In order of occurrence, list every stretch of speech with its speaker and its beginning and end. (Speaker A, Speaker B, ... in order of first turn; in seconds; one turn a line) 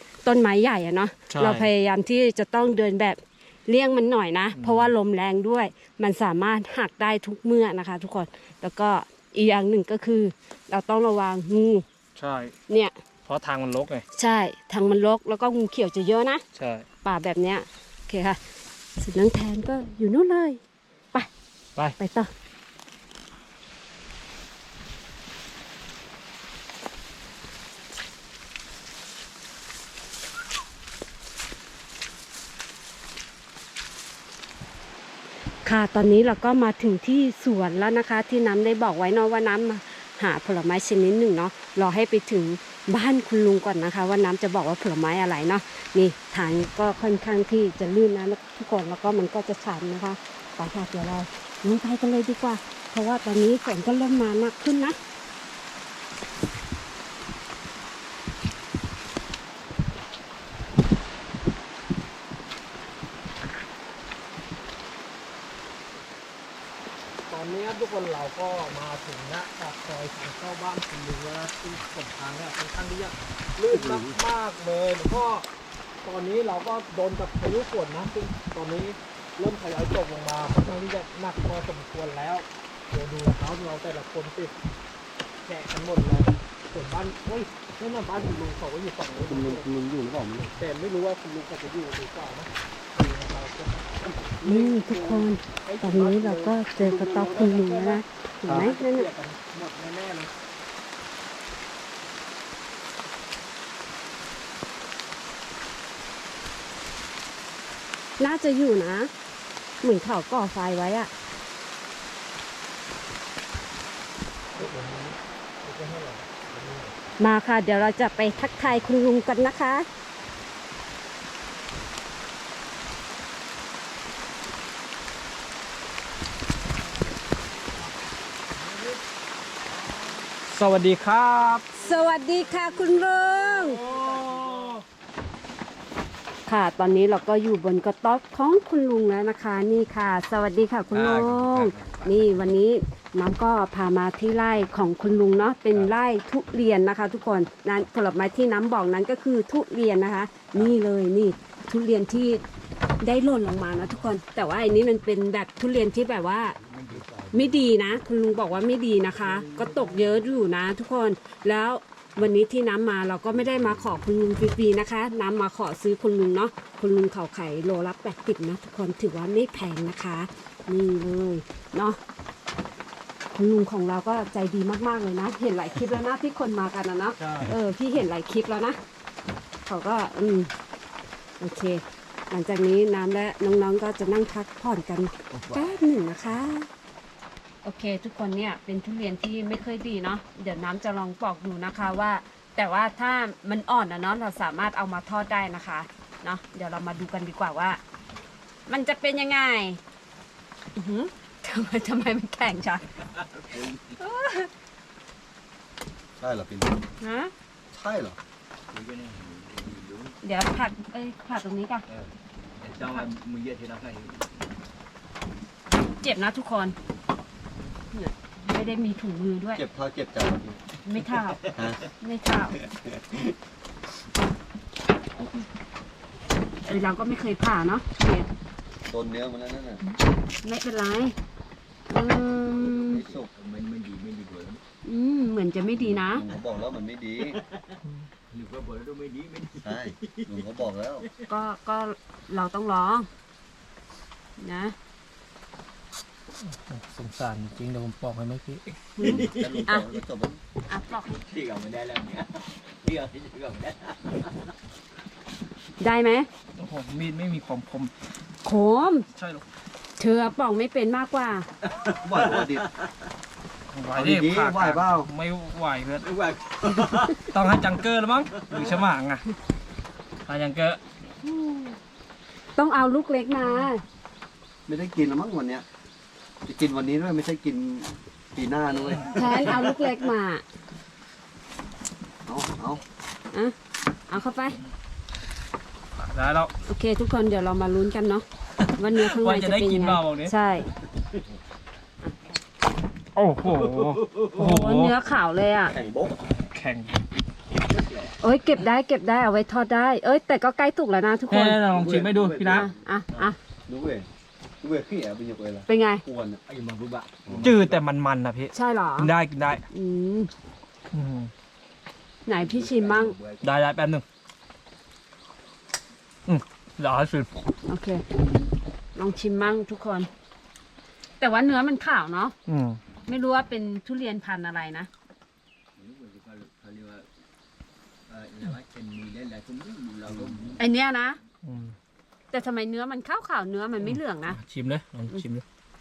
Speaker A: 0.2-11.8
Speaker B: 1.3-1.7
Speaker B: 4.5-4.9
Speaker B: 12.2-12.5
Speaker A: 12.7-12.9
Speaker B: 13.3-14.0
Speaker A: 14.2-16.4
Speaker B: 16.6-16.9
Speaker A: 17.0-18.4
Speaker A: 19.0-20.6
Speaker A: 22.0-22.3
Speaker A: 35.6-55.0
Speaker B: 67.3-75.5
Speaker C: 73.7-74.2
Speaker B: 76.0-84.5
Speaker B: 85.5-89.7
Speaker C: 89.3-90.5
Speaker B: 90.6-100.3
Speaker A: 94.4-99.1
Speaker A: 108.2-109.1
Speaker A: 109.8-111.1
Speaker B: 114.6-116.9
Speaker A: 117.2-119.9
Speaker B: 130.4-131.7
Speaker A: 131.7-133.8
Speaker B: 133.4-134.8
Speaker D: 133.8-134.7
Speaker A: 136.5-152.4
Speaker D: 140.9-142.2
Speaker A: 153.0-156.6
Speaker D: 156.6-157.7
Speaker A: 157.3-172.0
Speaker D: 159.2-160.3
Speaker D: 163.7-163.9
Speaker A: 173.3-178.8
Speaker D: 177.2-177.6
Speaker A: 179.7-180.5
Speaker A: 181.4-186.7
Speaker D: 185.3-185.8
Speaker A: 187.6-197.8
Speaker A: 198.7-199.8
Speaker A: 200.8-202.9
Speaker D: 203.0-204.0
Speaker A: 204.0-204.5
Speaker C: 206.2-206.8
Speaker A: 207.0-207.3
Speaker C: 207.7-208.2
Speaker D: 208.7-210.2
Speaker A: 210.2-211.8
Speaker D: 211.9-214.5
Speaker A: 215.9-216.8
Speaker A: 217.9-219.6
Speaker C: 219.6-220.6
Speaker A: 220.8-221.4
Speaker D: 221.0-221.9
Speaker A: 222.0-222.6
Speaker D: 222.6-223.3
Speaker A: 226.7-228.3
Speaker C: 228.9-229.8
Speaker A: 230.4-231.2
Speaker A: 231.9-233.0
Speaker D: 232.3-234.6
Speaker C: 232.9-233.3
Speaker A: 234.8-236.2
Speaker C: 235.8-237.4
Speaker D: 237.2-237.8
Speaker D: 238.3-240.5
Speaker C: 239.6-241.1
Speaker A: 241.3-243.1
Speaker A: 244.4-244.8
Speaker B: 246.4-248.7
Speaker A: 249.0-249.9
Speaker D: 249.0-249.7
Speaker C: 249.0-250.4
Speaker A: 250.7-251.2
Speaker D: 251.2-254.5
Speaker A: 255.8-256.3
Speaker B: 256.6-257.9
Speaker A: 258.4-259.1
Speaker B: 259.0-259.4
Speaker A: 260.0-261.5
Speaker D: 261.6-263.1
Speaker C: 262.0-262.7
Speaker B: 263.7-266.1
Speaker C: 263.9-265.1
Speaker D: 266.0-267.3
Speaker B: 267.2-269.2
Speaker D: 268.4-268.8
Speaker B: 270.3-270.8
Speaker A: 271.2-271.8
Speaker A: 272.6-273.8
Speaker C: 274.7-275.6
Speaker C: 276.4-279.6
Speaker A: 279.1-280.4
Speaker C: 282.3-282.8
Speaker A: 284.1-284.6
Speaker B: 286.0-286.5
Speaker A: 286.7-288.2
Speaker B: 288.6-290.3
Speaker A: 288.8-290.7
Speaker D: 291.0-291.3
Speaker B: 293.1-295.0
Speaker D: 293.4-294.4
Speaker A: 294.4-295.7
Speaker D: 295.7-296.2
Speaker B: 296.4-296.9
Speaker D: 297.6-298.2
Speaker A: 298.2-301.6
Speaker B: 301.3-302.7
Speaker D: 301.7-303.3
Speaker C: 301.7-302.7
Speaker A: 302.5-303.4
Speaker C: 303.7-304.1
Speaker C: 304.6-306.4
Speaker A: 305.7-306.0
Speaker D: 306.5-307.8
Speaker C: 307.3-307.6
Speaker B: 307.4-309.6
Speaker A: 308.5-309.1
Speaker A: 309.7-310.3
Speaker B: 310.9-311.3
Speaker A: 312.3-313.2
Speaker D: 312.4-313.5
Speaker B: 313.4-314.0
Speaker B: 316.3-317.3
Speaker A: 317.7-318.1
Speaker A: 319.0-320.1
Speaker A: 321.2-322.4
Speaker B: 322.5-322.8
Speaker A: 323.1-324.9
Speaker D: 325.8-327.1
Speaker D: 328.1-330.6
Speaker C: 330.1-330.4
Speaker A: 330.6-331.2
Speaker B: 331.4-331.8
Speaker A: 332.3-334.4
Speaker B: 333.8-335.4